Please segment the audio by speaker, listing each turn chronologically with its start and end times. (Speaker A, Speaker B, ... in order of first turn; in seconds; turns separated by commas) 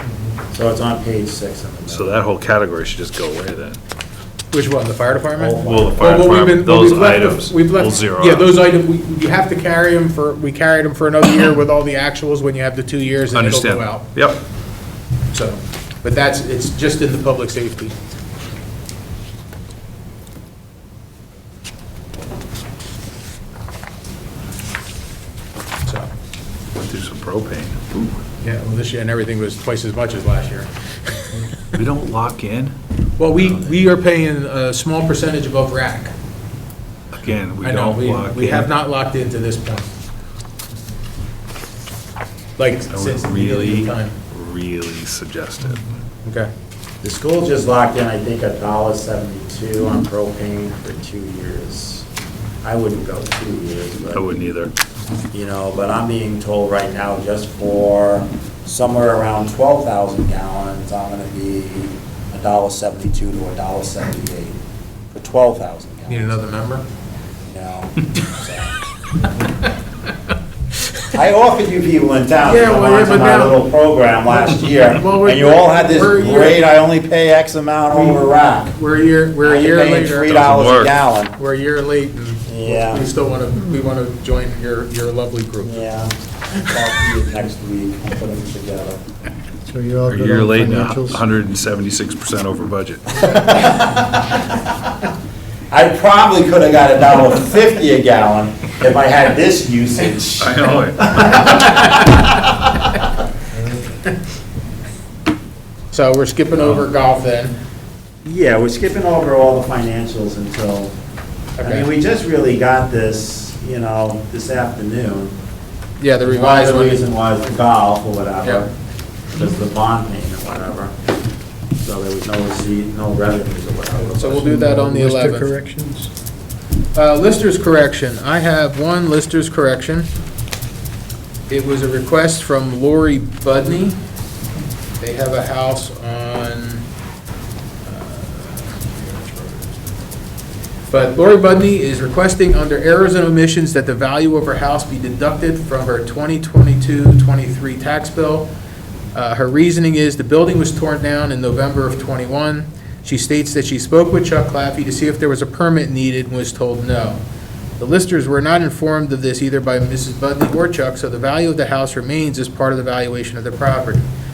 Speaker A: 0.5-2.2, Speaker B: 1.9-3.8, Speaker C: 4.5-14.1, Speaker A: 5.3-6.2, Speaker B: 5.6-8.5, Speaker B: 13.3-14.4, Speaker C: 15.3-17.9, Speaker B: 26.8-28.2, Speaker C: 28.4-31.4, Speaker B: 31.7-32.8, Speaker C: 33.2-36.1, Speaker B: 37.1-38.7, Speaker C: 37.6-39.9, Speaker C: 42.6-44.1, Speaker B: 42.9-45.9, Speaker C: 46.2-46.5, Speaker A: 47.0-52.0, Speaker A: 52.6-54.3, Speaker B: 54.1-54.7, Speaker A: 55.3-64.6, Speaker A: 65.1-66.4, Speaker C: 66.1-66.8, Speaker A: 67.5-68.7, Speaker A: 71.1-78.8, Speaker C: 72.5-73.6, Speaker C: 74.3-76.7, Speaker C: 77.9-80.4, Speaker A: 79.4-81.3, Speaker B: 80.2-81.0, Speaker C: 81.3-85.7, Speaker A: 82.5-83.0, Speaker A: 85.6-89.0, Speaker D: 89.7-91.2, Speaker B: 90.1-93.2, Speaker A: 93.1-94.9, Speaker A: 95.7-102.1, Speaker B: 100.4-101.4, Speaker C: 101.6-101.9, Speaker C: 105.9-107.5, Speaker A: 108.2-110.9, Speaker C: 111.6-111.9, Speaker A: 111.6-115.3, Speaker C: 116.0-117.0, Speaker A: 116.2-118.7, Speaker A: 119.3-120.9, Speaker A: 121.8-124.5, Speaker C: 124.2-125.6, Speaker D: 124.4-126.1, Speaker C: 126.9-130.1, Speaker C: 131.5-134.0, Speaker C: 135.0-136.8, Speaker C: 137.8-139.8, Speaker C: 140.9-148.5, Speaker C: 149.1-157.2, Speaker C: 157.8-164.1